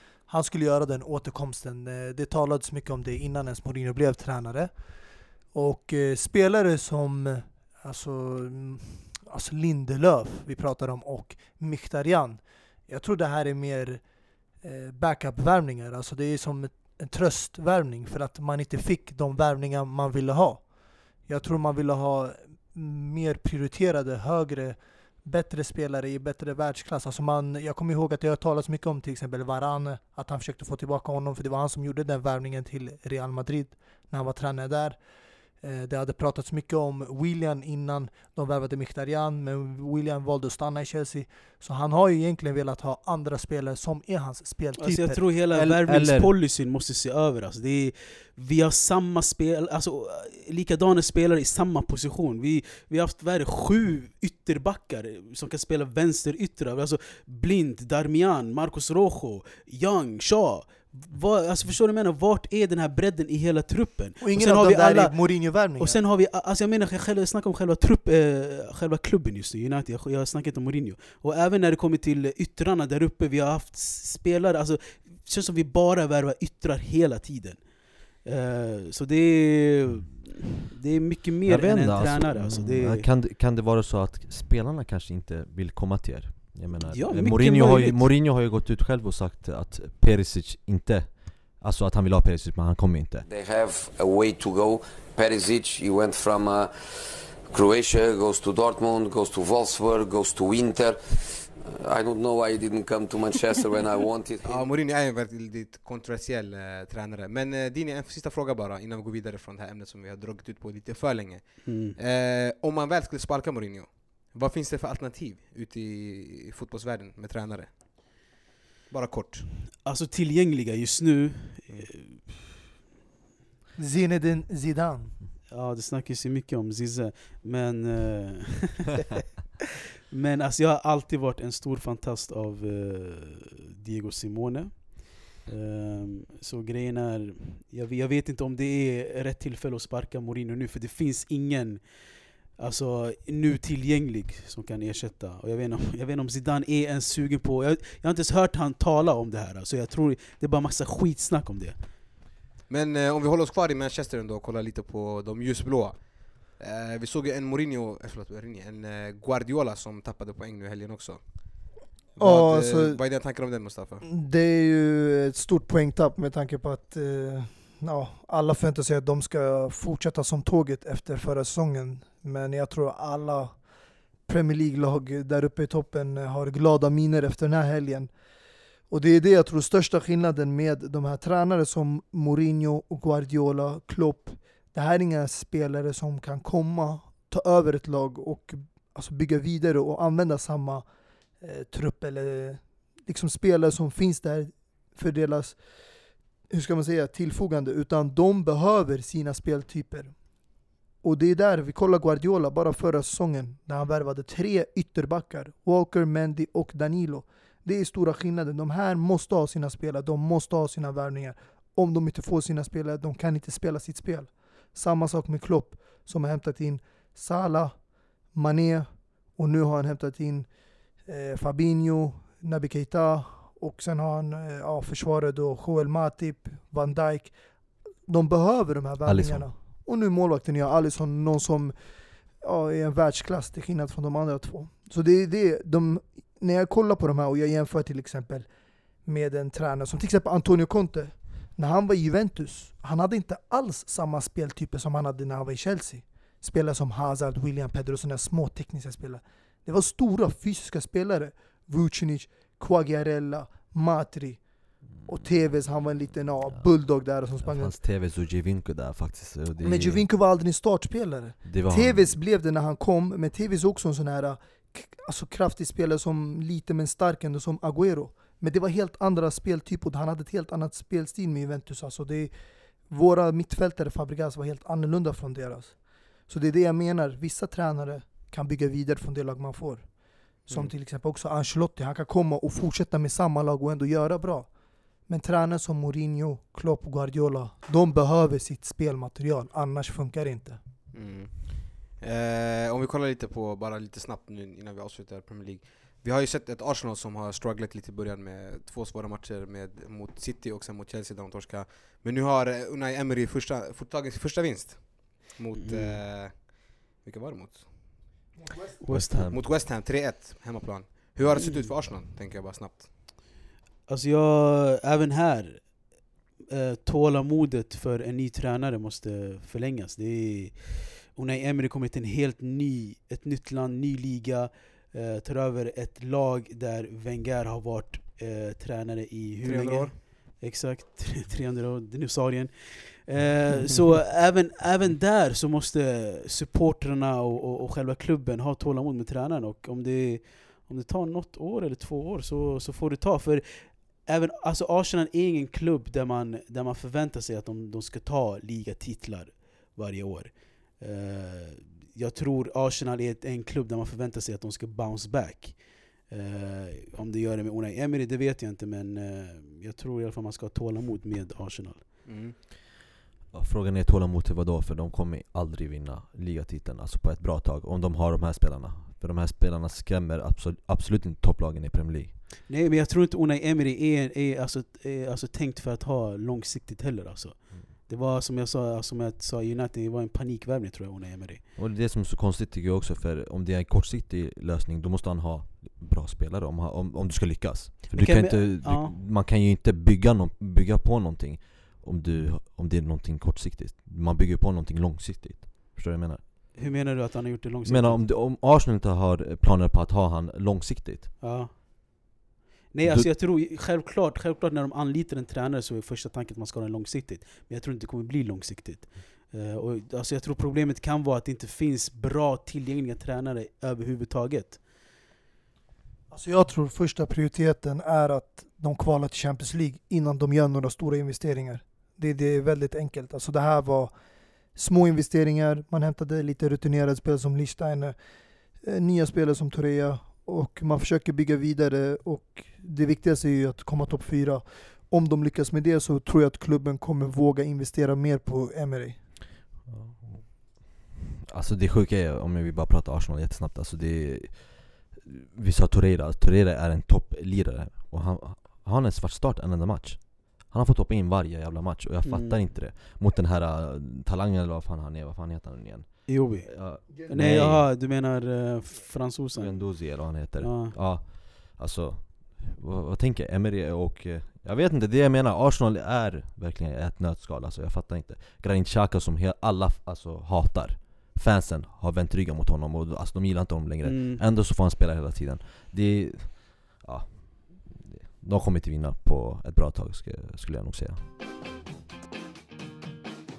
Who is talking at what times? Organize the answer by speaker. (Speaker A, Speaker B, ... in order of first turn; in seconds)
Speaker A: 0.3-4.7, 5.5-14.0, 14.6-20.6, 21.3-35.0, 35.6-45.2, 64.2-66.0, 123.8-125.2, 162.2-163.0, 164.0-173.6, 174.3-178.1, 178.9-190.9, 191.4-195.6, 196.5-200.1, 201.0-217.7, 218.3-220.5, 221.1-227.3, 228.1-231.8, 232.4-238.5, 239.1-254.4, 255.1-257.7, 259.6-272.3, 272.9-275.8, 276.3-279.9, 280.5-284.5, 285.1-290.6, 308.4-308.8, 416.1-423.9, 424.6-427.9, 428.6-439.0
Speaker B: 44.8-65.2, 65.8-77.6, 78.2-83.1, 86.9-88.1, 111.7-112.0, 119.8-122.3, 125.5-129.2, 130.1-151.8, 305.6-306.0, 308.8-309.3, 311.3-311.7, 313.9-315.8, 316.5-361.9, 372.5-381.4, 387.9-389.0, 396.6-398.1, 401.2-402.0, 402.7-414.6, 452.0-452.4, 456.1-460.8, 473.8-474.2
Speaker C: 45.5-46.3, 81.5-93.3, 229.1-229.5, 255.1-255.4, 257.4-260.0, 261.4-262.1, 308.9-309.4, 363.3-372.2, 381.6-396.2, 397.6-401.1, 402.8-403.1, 439.7-457.7, 459.3-481.0
Speaker D: 93.3-96.7, 97.5-104.6
Speaker E: 104.4-118.2, 118.9-119.5, 152.7-164.0, 290.9-308.0, 309.3-313.0, 329.4-330.0, 362.1-362.4